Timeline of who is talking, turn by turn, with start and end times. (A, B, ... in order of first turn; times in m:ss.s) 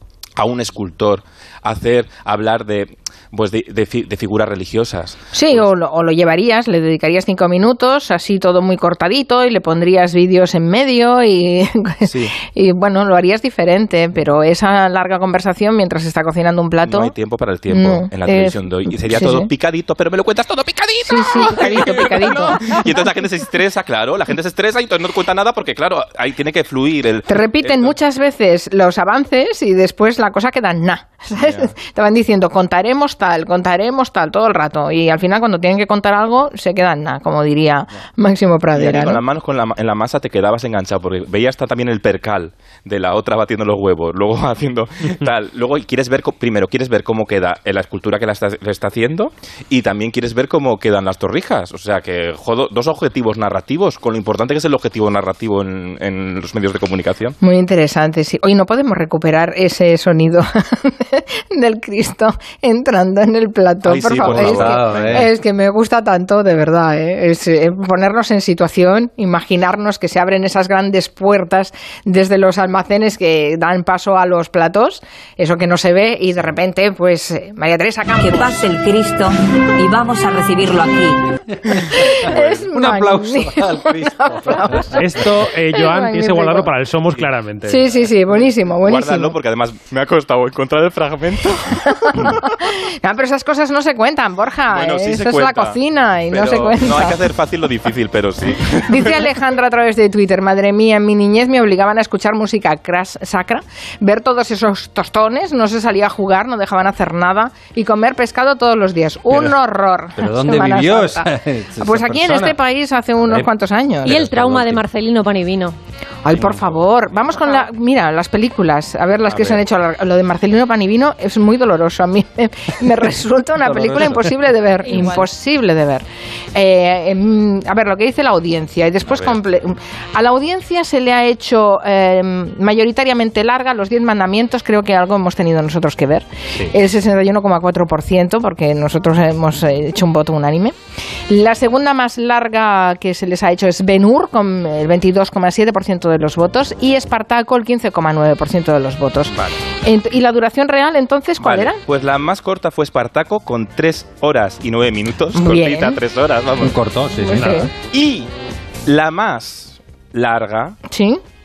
0:00.4-0:05.7 A
0:05.3-0:17.1 B
0:12.0-0:12.4 A
0:16.8-0:28.0 A
0:17.7-0:19.5 B
0:21.0-0:22.8 B
0:27.3-0:39.2 B
0:31.4-0:31.7 A
0:38.7-0:57.4 A
0:57.4-1:18.6 B
1:03.8-1:05.3 A
1:04.2-1:05.3 C
1:18.2-1:21.2 D
1:21.9-1:26.7 B
1:22.3-1:25.2 C
1:25.0-1:27.8 E
1:27.7-1:29.4 B
1:28.8-1:32.4 A
1:32.1-1:37.2 B
1:34.7-1:35.8 A
1:36.3-1:39.2 A
1:38.9-1:51.3 B
1:50.2-1:52.6 C
1:51.8-1:54.2 B
1:53.2-1:53.5 C
1:54.0-1:55.8 F
1:54.1-1:54.8 C
1:56.2-2:20.7 B
1:59.3-1:59.6 A
2:04.8-2:05.3 F
2:09.1-2:09.4 A
2:21.3-2:31.8 B
2:29.3-2:29.6 A
2:31.4-2:36.8 A
2:35.3-2:36.0 B
2:36.6-2:37.7 C
2:37.2-2:37.7 B
2:37.4-2:37.7 E
2:37.9-2:38.3 A
2:38.9-2:40.8 A
2:40.9-2:41.2 B